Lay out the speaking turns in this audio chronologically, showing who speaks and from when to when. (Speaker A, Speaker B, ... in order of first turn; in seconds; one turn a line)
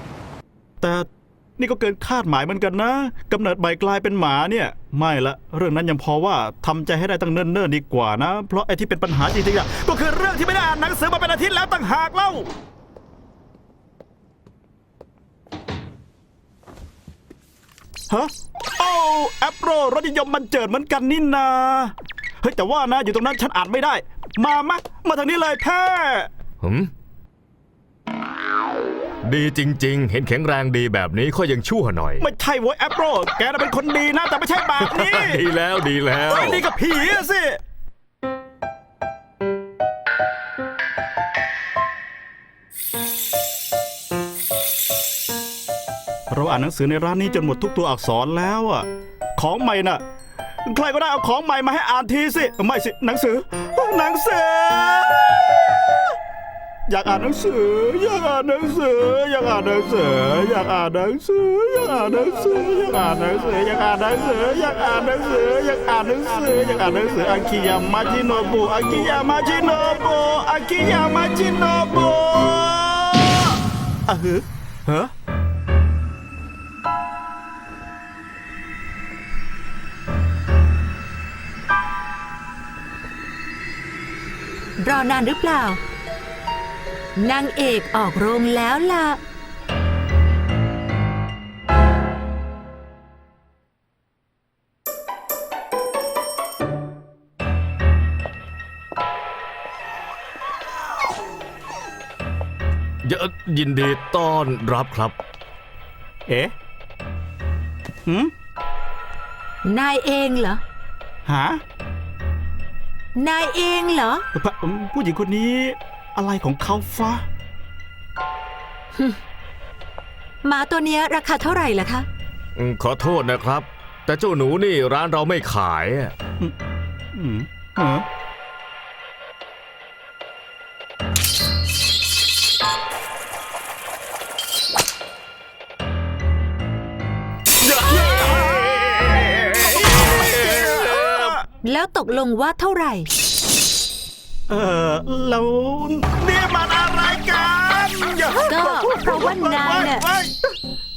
Speaker A: 0.8-12.5
Speaker A: 18.1-26.3
Speaker B: 26.6-26.9
Speaker B: 29.2-32.2
Speaker A: 32.2-35.5
Speaker B: 34.8-36.6
Speaker A: 36.3-37.6
Speaker A: 46.3-50.0
Speaker A: 50.6-56.1
Speaker A: 56.9-75.1
Speaker C: 84.8-85.8
Speaker C: 87.2-89.2
Speaker B: 103.0-105.2
Speaker A: 106.3-106.5
Speaker A: 108.0-108.3
Speaker C: 109.6-110.6
Speaker A: 111.2-111.6
Speaker C: 113.2-114.2
Speaker A: 114.3-117.2
Speaker C: 120.4-122.0
Speaker B: 122.6-126.1
Speaker A: 127.1-128.1
Speaker A: 137.6-141.4
Speaker C: 141.5-143.1
Speaker A: 144.5-150.5
Speaker C: 148.5-150.0